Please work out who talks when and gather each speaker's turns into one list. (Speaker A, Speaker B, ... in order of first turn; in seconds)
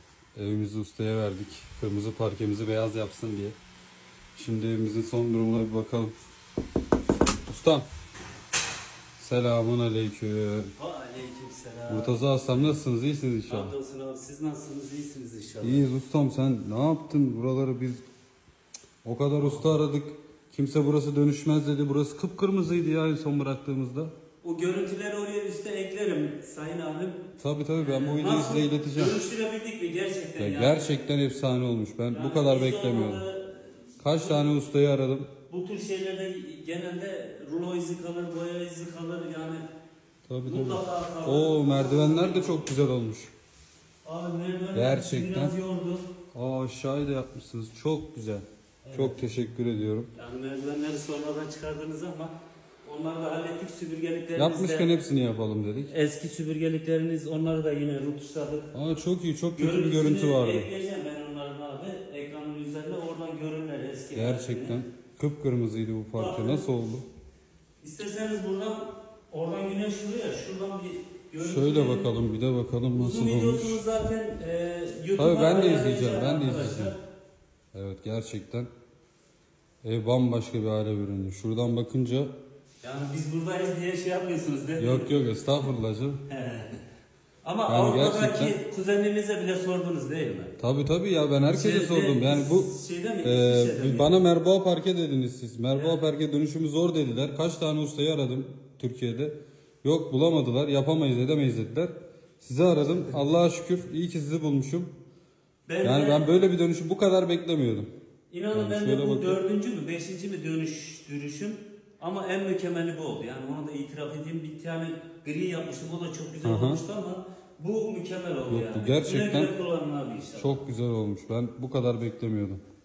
Speaker A: 0.3-3.6, 4.3-6.1, 7.5-7.9, 9.2-10.7, 11.9-13.8, 15.6-18.1, 19.0-24.1, 27.4-29.2, 30.4-33.2, 34.0-35.3, 40.3-43.3, 44.7-45.6, 46.3-50.1, 54.4-55.9, 58.7-60.7, 64.1-67.1, 71.4-73.8, 75.2-77.0, 77.7-78.7, 79.8-82.3, 84.8-86.2, 87.7-88.6, 90.6-104.9, 105.8-107.9, 108.5-109.4, 116.4-116.8, 118.5-119.5, 120.4-122.6
Speaker B: 10.8-12.7, 13.5-15.9, 24.4-27.2, 27.8-31.0, 32.1-34.6, 35.5-39.6, 40.5-42.8, 44.0-46.1, 48.9-49.2, 50.1-54.9, 55.9-58.7, 59.5-64.8, 66.2-66.7, 67.8-72.2, 72.9-77.0, 82.8-85.2, 86.3-86.8, 87.4-90.6, 91.5-94.2, 95.7-96.0, 105.7-106.3, 108.3-120.7